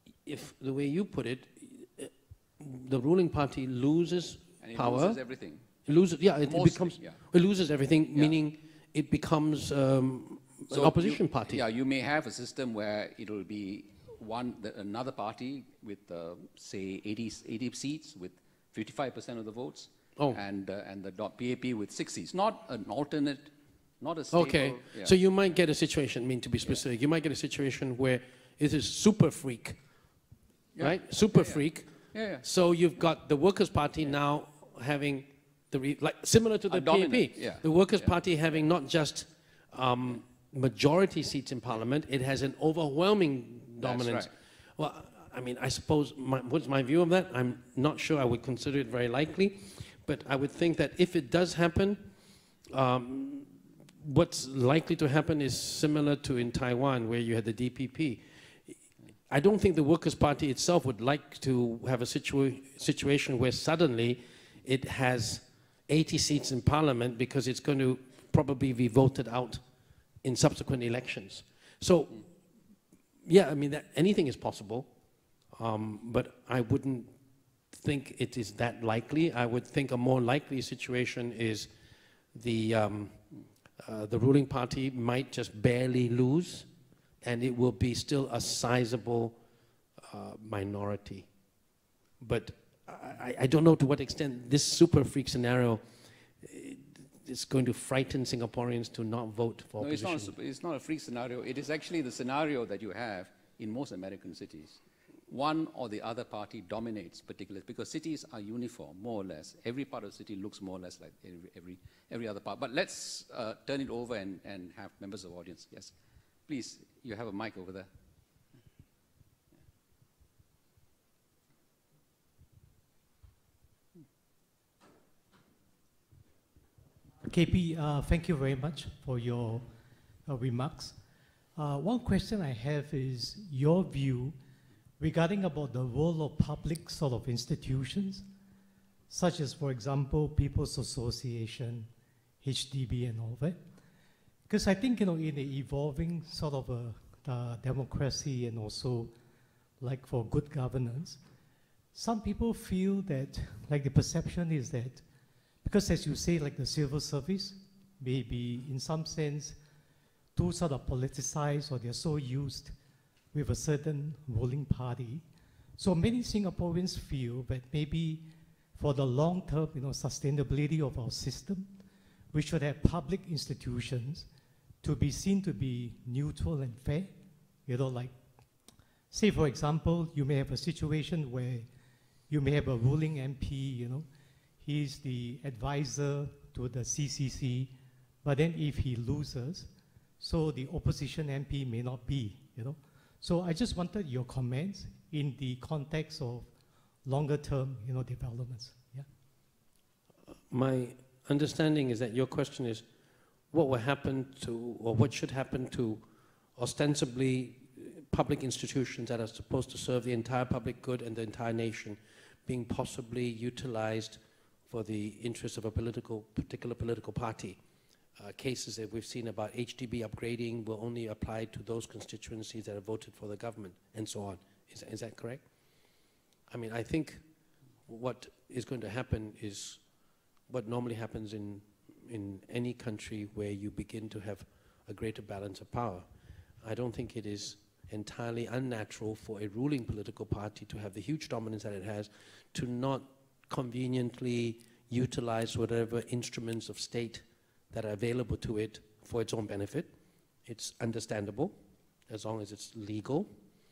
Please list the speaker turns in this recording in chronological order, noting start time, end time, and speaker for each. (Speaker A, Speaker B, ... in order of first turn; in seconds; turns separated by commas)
Speaker A: 0.2-5.2, Speaker B: 4.6-5.7, Speaker A: 5.8-11.6, Speaker B: 6.4-7.2, Speaker B: 10.7-25.1, Speaker A: 24.3-29.8, Speaker B: 30.7-32.4, Speaker A: 30.8-52.1, Speaker B: 36.7-38.2, Speaker B: 43.8-44.3, Speaker A: 52.7-58.8, Speaker A: 59.3-69.6, Speaker A: 70.2-72.3, Speaker A: 73.2-74.9, Speaker A: 75.5-77.1, Speaker A: 77.7-81.7, Speaker A: 82.3-83.2, Speaker A: 83.8-86.7, Speaker A: 87.2-89.4, Speaker A: 90.1-91.3, Speaker A: 92.2-95.8, Speaker A: 96.4-100.3, Speaker B: 99.8-115.9, Speaker B: 116.5-117.9, Speaker C: 127.2-129.7, Speaker C: 130.2-131.0, Speaker C: 131.5-134.4, Speaker C: 135.0-138.3, Speaker C: 139.1-141.9, Speaker C: 142.4-143.6, Speaker C: 144.5-149.2, Speaker C: 149.8-151.2, Speaker C: 151.9-155.1, Speaker C: 155.6-159.6, Speaker C: 160.3-162.8, Speaker C: 163.3-171.8, Speaker C: 172.3-174.3, Speaker C: 174.8-181.7, Speaker C: 182.3-184.1, Speaker C: 184.6-199.1, Speaker A: 200.5-202.9, Speaker A: 203.5-206.0, Speaker A: 206.6-217.6, Speaker A: 218.2-225.5, Speaker A: 226.5-227.2, Speaker A: 227.8-229.9, Speaker A: 230.5-236.1, Speaker A: 236.6-249.9, Speaker A: 250.4-251.6, Speaker A: 252.1-253.3